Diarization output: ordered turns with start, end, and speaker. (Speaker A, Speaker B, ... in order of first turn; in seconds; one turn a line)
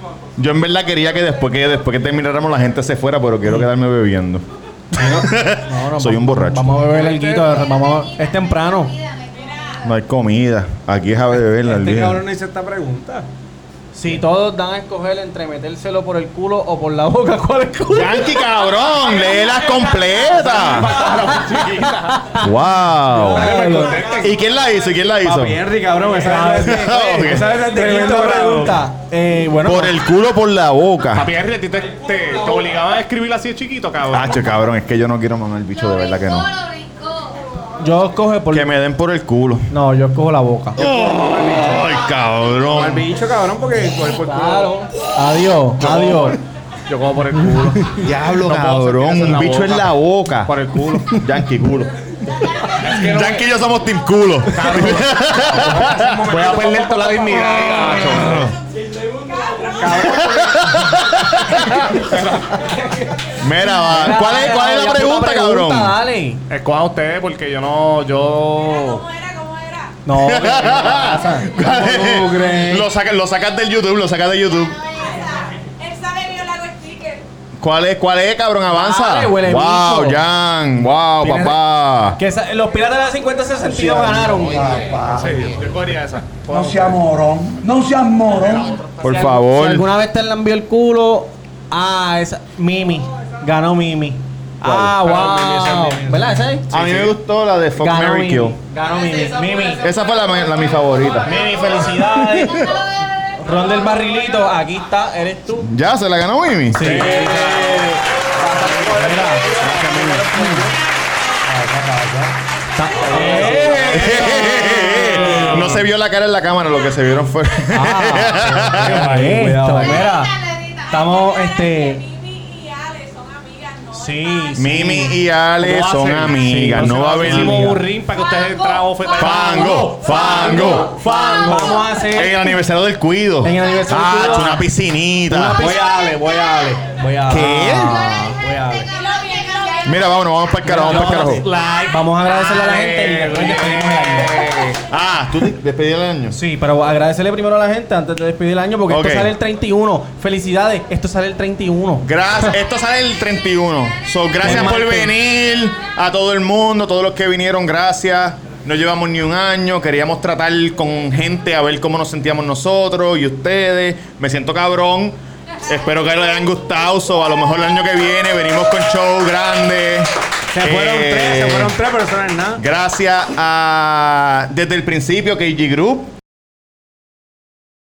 Speaker A: 0.4-6.9
Speaker B: 4.9-8.9
Speaker C: 6.9-7.6
Speaker D: 9.0-9.8
Speaker A: 9.8-12.2
Speaker C: 11.6-13.3
Speaker B: 13.9-18.2
Speaker A: 17.9-20.9
Speaker E: 20.3-22.2
Speaker B: 22.1-22.5
Speaker A: 22.4-23.5
Speaker B: 23.1-24.0
Speaker C: 23.2-24.3
Speaker E: 23.5-24.3
Speaker A: 24.1-25.6
Speaker C: 25.2-28.9
Speaker B: 26.2-30.0
Speaker A: 26.6-27.5
Speaker A: 29.6-31.3
Speaker E: 31.1-34.4
Speaker A: 34.1-36.5
Speaker B: 37.8-38.7
Speaker A: 38.5-39.7
Speaker B: 39.7-40.8
Speaker A: 40.8-43.1
Speaker E: 40.8-41.9
Speaker C: 42.7-44.7
Speaker B: 44.2-46.4
Speaker A: 45.8-46.2
Speaker E: 46.9-49.9
Speaker A: 48.0-50.5
Speaker E: 50.5-51.1
Speaker A: 51.1-51.9
Speaker E: 52.8-53.5
Speaker A: 52.8-56.2
Speaker E: 54.5-55.2
Speaker C: 55.4-57.8
Speaker E: 56.2-58.5
Speaker A: 58.1-58.5
Speaker D: 59.4-59.8
Speaker C: 59.8-60.8
Speaker A: 60.0-62.1
Speaker E: 62.0-62.6
Speaker A: 63.4-66.0
Speaker B: 63.9-66.4
Speaker E: 66.5-69.0
Speaker D: 68.5-70.0
Speaker B: 70.1-71.5
Speaker A: 70.2-74.8
Speaker C: 71.5-72.9
Speaker D: 74.7-77.2
Speaker A: 77.6-82.2
Speaker B: 78.7-80.2
Speaker B: 81.2-81.6
Speaker B: 82.2-84.9
Speaker F: 83.8-85.6
Speaker E: 85.1-87.0
Speaker F: 86.5-88.8
Speaker E: 88.4-88.9
Speaker A: 89.0-89.9
Speaker B: 89.0-96.7
Speaker A: 94.6-94.9
Speaker C: 94.9-96.6
Speaker A: 96.7-98.6
Speaker E: 96.7-97.1
Speaker B: 97.8-99.8
Speaker A: 99.8-101.4
Speaker B: 101.2-102.8
Speaker B: 103.4-105.7
Speaker A: 105.6-107.1
Speaker B: 106.7-108.0
Speaker E: 106.8-110.6
Speaker B: 108.5-110.7
Speaker C: 111.5-112.4
Speaker B: 112.8-115.6
Speaker C: 113.0-114.2
Speaker E: 113.3-115.7
Speaker A: 113.9-119.1
Speaker C: 115.1-115.7
Speaker B: 117.7-120.3
Speaker C: 118.6-120.1
Speaker B: 120.9-122.0
Speaker D: 120.9-124.6
Speaker B: 123.9-125.2
Speaker A: 124.6-127.8
Speaker E: 125.6-130.7
Speaker B: 126.4-127.8
Speaker A: 129.2-131.1
Speaker B: 129.9-132.6
Speaker A: 131.9-135.6
Speaker B: 133.4-134.7
Speaker B: 135.3-135.8
Speaker C: 135.6-138.9
Speaker A: 137.3-138.0
Speaker B: 137.4-138.4
Speaker D: 138.9-140.0
Speaker A: 139.8-141.4
Speaker E: 140.7-144.8
Speaker B: 140.8-144.4
Speaker A: 144.9-146.4
Speaker B: 146.3-152.1
Speaker A: 148.9-149.3
Speaker A: 152.0-171.8
Speaker B: 154.4-155.1
Speaker C: 170.5-172.6
Speaker A: 172.6-176.1